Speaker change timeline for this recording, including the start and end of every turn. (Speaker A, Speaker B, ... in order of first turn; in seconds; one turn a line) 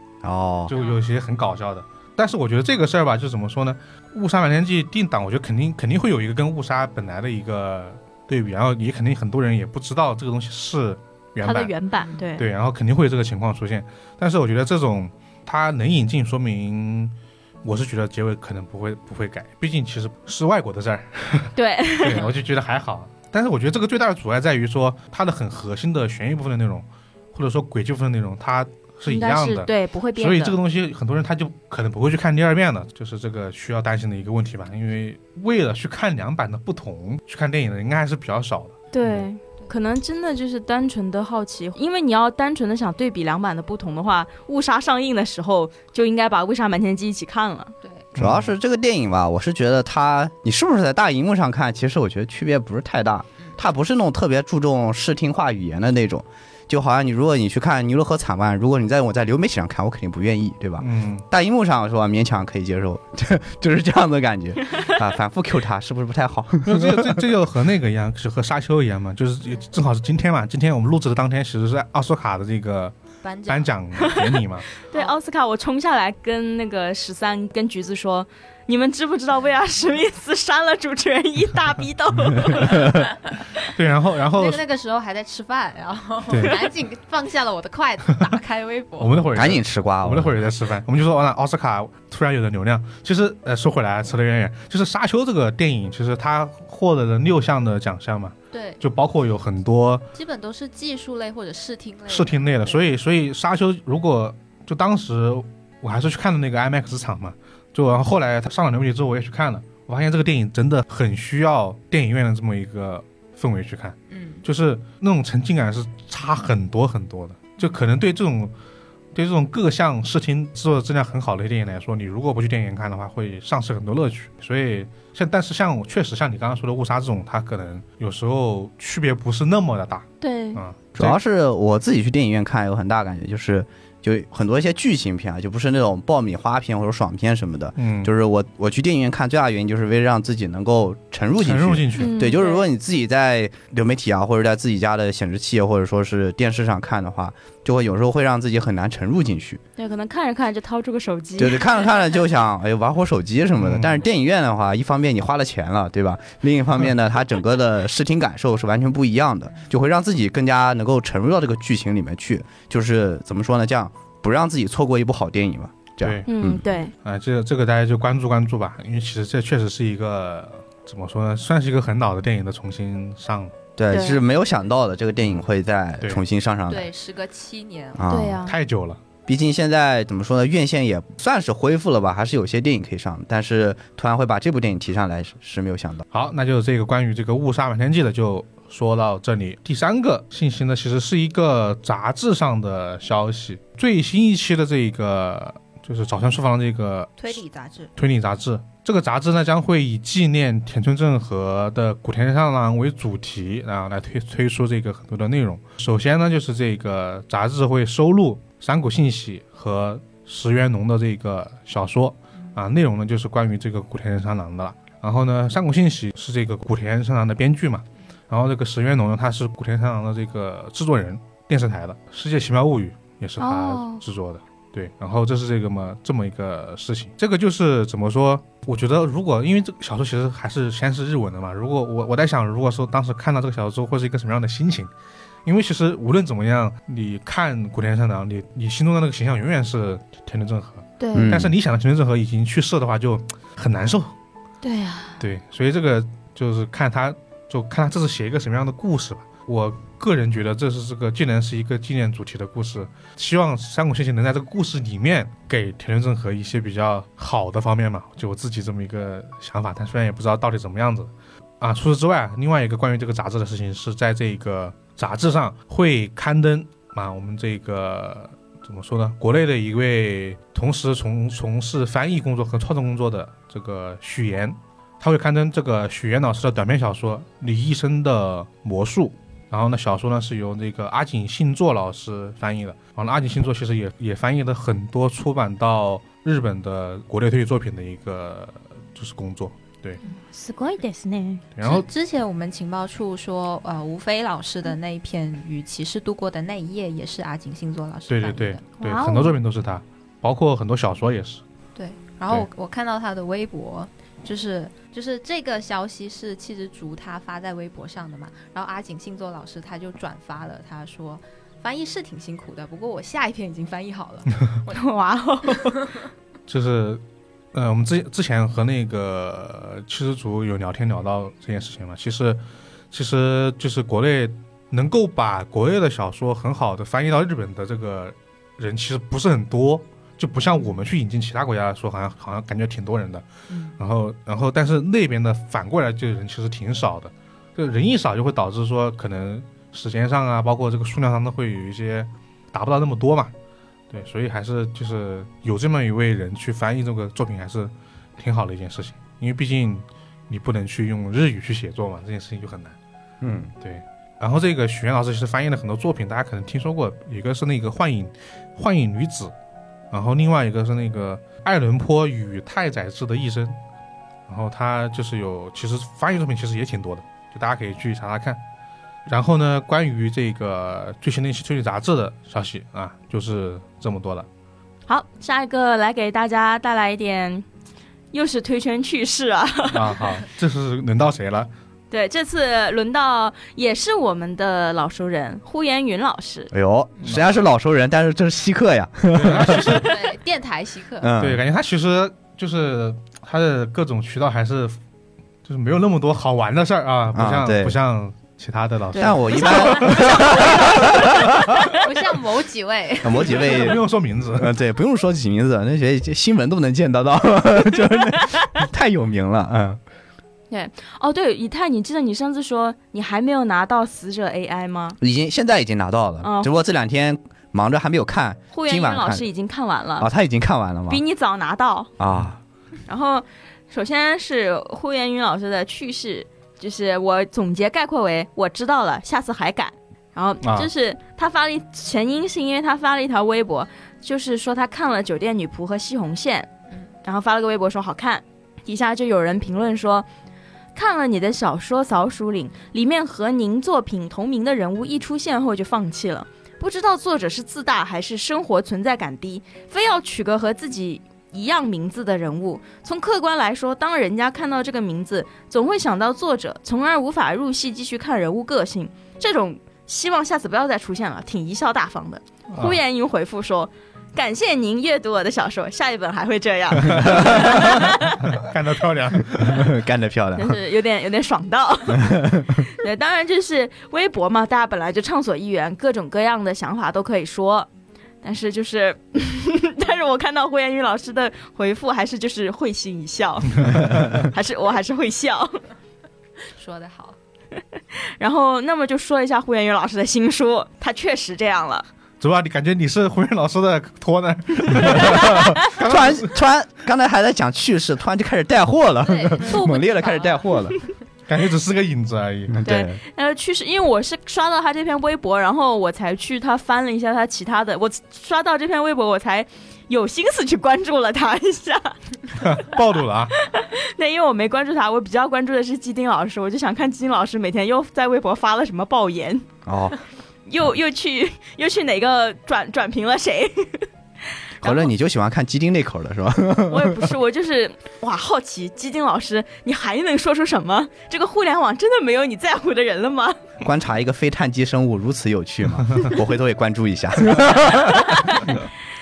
Speaker A: 0.2-0.7
Speaker B: 0.7-11.7
Speaker C: 11.4-12.5
Speaker B: 12.3-39.2
Speaker C: 21.6-22.3
Speaker C: 29.1-30.6
Speaker C: 38.9-47.8
Speaker B: 48.1-48.5
Speaker A: 48.2-67.2
Speaker B: 60.8-61.2
Speaker B: 66.7-73.0
Speaker D: 73.2-73.7
Speaker B: 73.5-74.7
Speaker C: 74.9-83.1
Speaker B: 83.7-84.6
Speaker D: 84.3-89.3
Speaker B: 86.3-86.6
Speaker B: 89.0-100.1
Speaker A: 89.3-90.4
Speaker D: 98.5-98.8
Speaker D: 100.1-102.9
Speaker B: 102.1-118.5
Speaker D: 114.1-114.5
Speaker B: 119.1-131.2
Speaker C: 130.2-130.6
Speaker A: 131.0-149.6
Speaker B: 137.8-138.1
Speaker B: 141.4-142.2
Speaker C: 142.0-142.7
Speaker C: 149.8-151.7
Speaker A: 151.4-166.6
Speaker B: 153.6-154.0
Speaker B: 166.0-166.3
Speaker C: 166.3-166.9
Speaker B: 167.0-173.5
Speaker A: 173.8-176.9
Speaker C: 173.9-174.2
Speaker D: 176.7-178.0
Speaker A: 177.9-178.4
Speaker C: 178.1-178.6
Speaker B: 178.4-179.0
Speaker A: 179.3-186.1
Speaker B: 186.1-197.4
Speaker D: 197.2-197.9
Speaker B: 198.0-234.9
Speaker C: 223.4-224.0
Speaker B: 235.4-244.1
Speaker C: 241.0-241.3
Speaker A: 241.1-241.5
Speaker C: 244.6-245.2
Speaker B: 245.2-290.0
Speaker C: 290.0-291.5
Speaker B: 291.6-291.9
Speaker D: 291.6-298.6
Speaker B: 298.1-301.4
Speaker C: 298.8-299.4
Speaker D: 301.8-314.8
Speaker C: 314.7-315.9
Speaker B: 316.5-317.0
Speaker B: 317.5-322.4
Speaker B: 322.9-333.3
Speaker B: 333.8-343.3
Speaker B: 343.9-352.8
Speaker A: 353.2-353.5
Speaker B: 353.6-359.3
Speaker B: 359.9-363.6
Speaker B: 364.3-368.4
Speaker B: 369.1-374.3
Speaker C: 374.9-377.4
Speaker C: 378.1-380.0
Speaker B: 379.7-381.5
Speaker C: 381.9-386.5
Speaker A: 386.5-389.6
Speaker B: 387.0-387.4
Speaker B: 389.1-390.1
Speaker D: 389.5-391.1
Speaker A: 391.0-391.4
Speaker B: 391.2-394.8
Speaker B: 395.4-400.2
Speaker A: 397.1-397.8
Speaker A: 398.9-401.5
Speaker D: 399.4-401.1
Speaker C: 399.5-400.6
Speaker D: 401.6-403.7
Speaker A: 403.0-403.8
Speaker B: 403.4-404.5
Speaker A: 404.4-409.8
Speaker C: 410.5-415.0
Speaker A: 415.0-419.3
Speaker C: 416.2-416.5
Speaker C: 418.5-420.1
Speaker A: 420.0-421.0
Speaker C: 420.9-421.9
Speaker A: 422.0-422.4
Speaker C: 422.9-436.5
Speaker B: 430.4-430.7
Speaker C: 437.0-440.1
Speaker C: 440.8-468.3
Speaker B: 462.5-462.8
Speaker B: 466.9-469.7
Speaker A: 469.4-470.6
Speaker C: 470.4-477.7
Speaker A: 471.9-472.6
Speaker C: 478.2-485.6
Speaker B: 483.6-483.9
Speaker D: 486.6-487.2
Speaker C: 488.2-491.9
Speaker B: 492.2-496.4
Speaker C: 494.7-495.5
Speaker A: 495.1-500.8
Speaker D: 499.1-500.5
Speaker B: 501.3-502.5
Speaker A: 502.5-503.0
Speaker C: 502.6-512.0
Speaker B: 512.4-513.3
Speaker C: 513.4-519.5
Speaker A: 519.7-520.0
Speaker C: 520.5-523.9
Speaker C: 524.6-524.9
Speaker A: 524.6-527.0
Speaker C: 526.7-533.5
Speaker A: 533.6-538.0
Speaker C: 537.8-538.6